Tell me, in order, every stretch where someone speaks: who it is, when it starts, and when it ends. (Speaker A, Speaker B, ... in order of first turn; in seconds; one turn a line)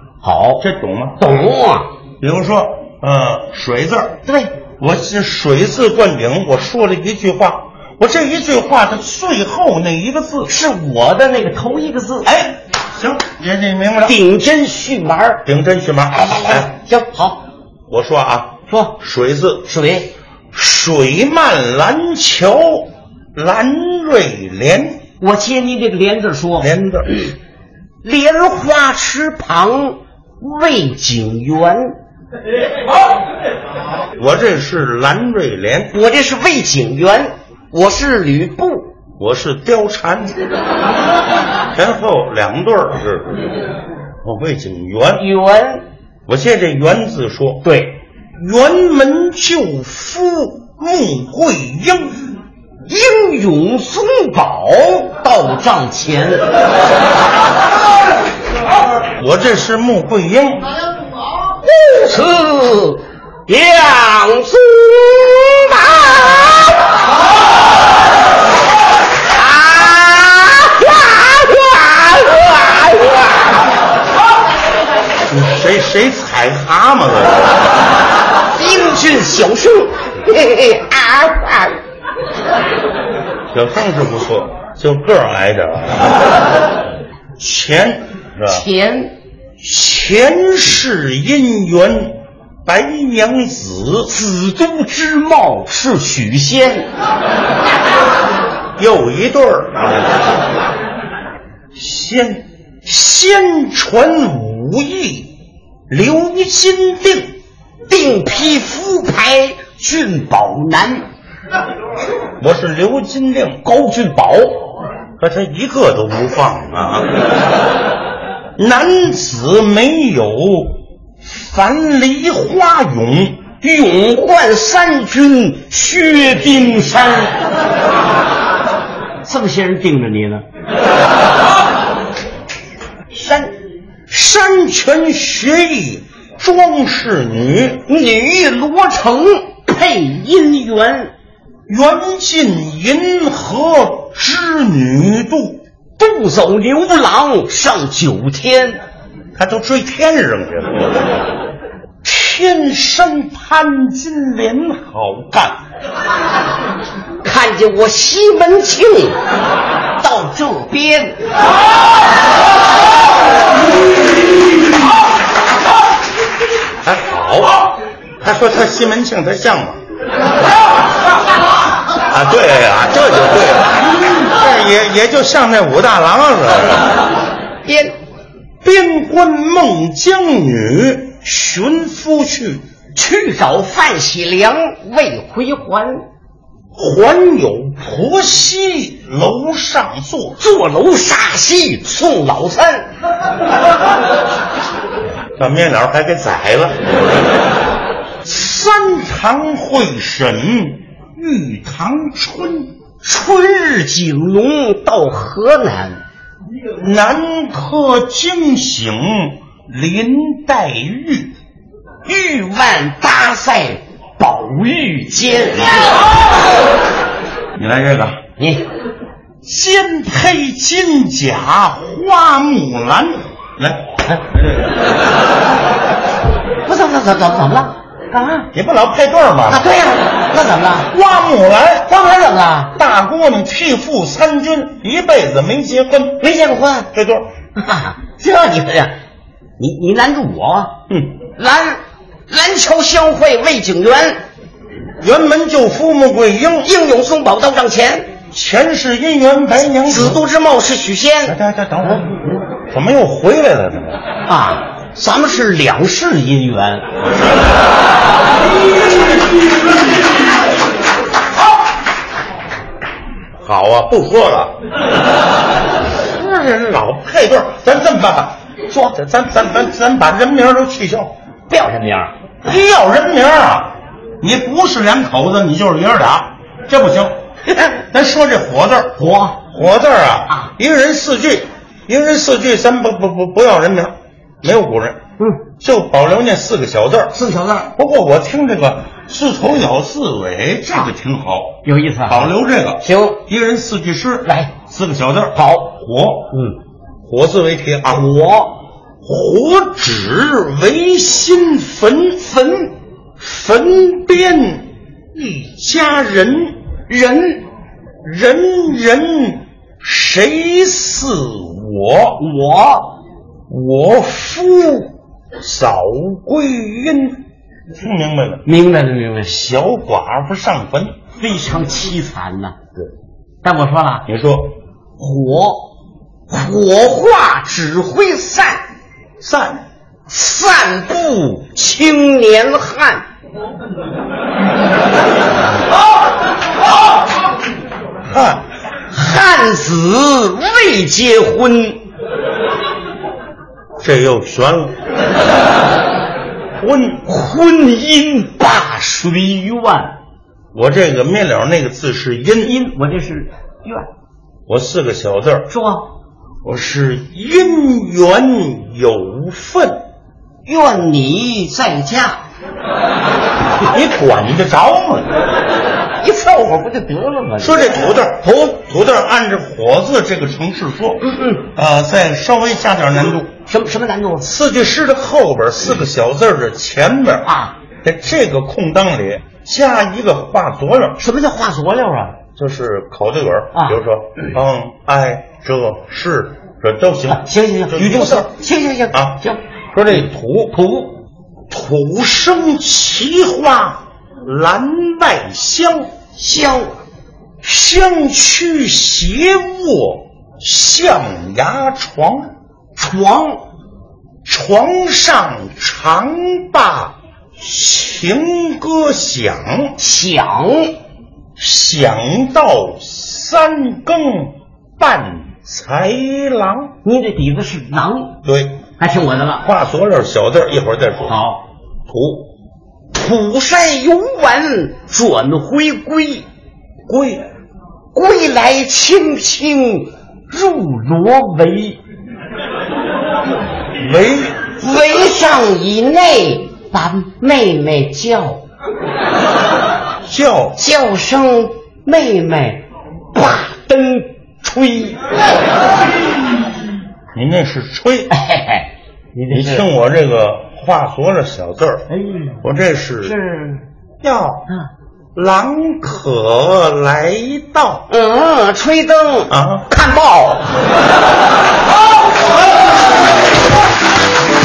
Speaker A: 0.2-0.6
Speaker B: 0.6-1.2
Speaker A: 1.2-1.9
Speaker B: 2.2-4.2
Speaker A: 4.3-4.6
Speaker B: 4.8-10.5
Speaker A: 10.5-12.3
Speaker B: 12.2-14.2
Speaker A: 14.1-15.4
Speaker B: 15.4-16.7
Speaker A: 16.1-17.4
Speaker B: 17.9-19.7
Speaker A: 18.7-19.0
Speaker A: 19.6-20.1
Speaker B: 20.5-25.0
Speaker A: 25.2-27.3
Speaker B: 26.6-27.1
Speaker A: 28.0-32.0
Speaker B: 34.2-36.0
Speaker A: 35.9-38.9
Speaker B: 39.2-40.4
Speaker B: 41.7-43.5
Speaker B: 44.2-45.3
Speaker A: 45.2-45.9
Speaker B: 46.3-47.7
Speaker A: 47.6-48.0
Speaker B: 48.4-52.3
Speaker A: 52.9-56.5
Speaker B: 59.2-60.7
Speaker A: 61.6-66.9
Speaker A: 69.3-73.7
Speaker B: 75.3-77.7
Speaker A: 78.5-81.8
Speaker B: 83.5-86.3
Speaker B: 87.4-88.7
Speaker A: 88.5-89.2
Speaker B: 89.6-94.1
Speaker A: 94.1-96.9
Speaker B: 98.8-100.1
Speaker B: 101.7-105.3
Speaker B: 105.9-107.4
Speaker A: 107.9-111.1
Speaker B: 112.4-113.6
Speaker A: 113.7-114.7
Speaker B: 115.2-117.1
Speaker B: 118.6-123.5
Speaker A: 123.6-127.5
Speaker A: 129.2-130.4
Speaker A: 133.1-133.6
Speaker B: 134.1-137.8
Speaker A: 137.9-141.1
Speaker B: 141.7-145.6
Speaker A: 146.0-148.8
Speaker B: 149.4-151.3
Speaker B: 152.0-155.6
Speaker A: 157.2-159.2
Speaker A: 160.0-161.2
Speaker B: 166.8-167.7
Speaker B: 168.2-169.8
Speaker B: 172.1-177.0
Speaker A: 177.6-178.0
Speaker B: 178.6-182.6
Speaker A: 182.9-186.1
Speaker B: 186.7-190.4
Speaker A: 190.4-192.9
Speaker B: 195.4-196.8
Speaker B: 198.2-202.7
Speaker A: 203.0-206.0
Speaker B: 206.8-211.4
Speaker A: 212.1-215.9
Speaker B: 217.6-218.2
Speaker A: 218.4-218.7
Speaker B: 219.4-224.7
Speaker A: 226.6-228.5
Speaker B: 228.5-229.7
Speaker A: 229.5-230.9
Speaker B: 230.9-232.1
Speaker A: 231.9-232.8
Speaker B: 232.8-236.3
Speaker A: 236.2-236.9
Speaker B: 236.9-237.3
Speaker A: 237.6-239.0
Speaker A: 239.6-244.2
Speaker B: 240.9-241.2
Speaker B: 245.0-246.7
Speaker A: 246.6-248.1
Speaker B: 248.3-250.2
Speaker A: 249.9-251.3
Speaker B: 251.3-254.0
Speaker A: 254.2-256.9
Speaker B: 263.4-264.6
Speaker B: 266.0-268.4
Speaker A: 268.7-269.0
Speaker B: 268.9-271.1
Speaker A: 271.5-272.1
Speaker B: 272.4-277.2
Speaker B: 277.9-285.0
Speaker A: 279.0-279.4
Speaker B: 285.6-287.2
Speaker A: 287.1-287.7
Speaker B: 287.7-296.3
Speaker A: 291.6-292.3
Speaker A: 292.8-293.2
Speaker A: 294.2-294.5
Speaker A: 295.3-295.7
Speaker A: 296.3-296.6
Speaker B: 297.1-298.1
Speaker A: 297.9-298.6
Speaker B: 299.0-302.2
Speaker A: 302.2-302.8
Speaker B: 303.2-306.6
Speaker A: 306.9-307.5
Speaker B: 308.0-312.2
Speaker A: 312.2-313.0
Speaker B: 313.5-318.4
Speaker A: 318.4-319.4
Speaker B: 319.3-321.0
Speaker A: 321.2-322.8
Speaker A: 323.4-324.1
Speaker B: 324.1-324.6
Speaker A: 325.0-325.7
Speaker A: 326.3-328.6
Speaker B: 329.2-329.6
Speaker A: 330.1-333.1
Speaker B: 338.1-338.5
Speaker A: 338.9-341.8
Speaker B: 343.8-344.8
Speaker B: 346.6-347.1
Speaker A: 347.1-350.0
Speaker B: 350.5-352.6
Speaker A: 352.4-353.9
Speaker B: 354.5-355.5
Speaker A: 355.5-355.9
Speaker B: 356.4-359.9
Speaker A: 360.5-362.2
Speaker B: 363.7-365.2
Speaker A: 366.0-367.7
Speaker B: 367.4-373.4
Speaker A: 371.0-371.4
Speaker A: 373.5-374.3
Speaker B: 374.2-377.3
Speaker A: 377.2-377.6
Speaker B: 377.8-381.0
Speaker A: 381.0-382.2
Speaker B: 382.4-388.3
Speaker A: 387.1-389.4
Speaker B: 388.9-389.2
Speaker B: 389.7-390.6
Speaker A: 390.5-391.0
Speaker B: 391.5-395.9
Speaker A: 396.1-396.8
Speaker B: 397.4-402.3
Speaker A: 402.8-403.4
Speaker B: 404.2-409.8
Speaker A: 409.8-410.8
Speaker B: 411.4-416.8
Speaker A: 416.8-418.2
Speaker B: 418.2-418.6
Speaker A: 418.8-419.5
Speaker B: 419.4-421.2
Speaker A: 421.1-421.5
Speaker B: 421.9-422.3
Speaker A: 422.9-426.3
Speaker B: 426.9-427.3
Speaker A: 427.9-431.8
Speaker B: 433.8-434.5
Speaker A: 434.5-438.5
Speaker B: 440.1-440.6
Speaker A: 440.6-445.0
Speaker B: 447.1-448.1
Speaker A: 448.1-449.7
Speaker B: 449.3-451.9
Speaker A: 451.9-452.4
Speaker B: 452.4-453.2
Speaker A: 453.1-453.7
Speaker B: 454.0-454.6
Speaker B: 455.1-457.9
Speaker A: 457.9-460.5
Speaker B: 459.3-459.7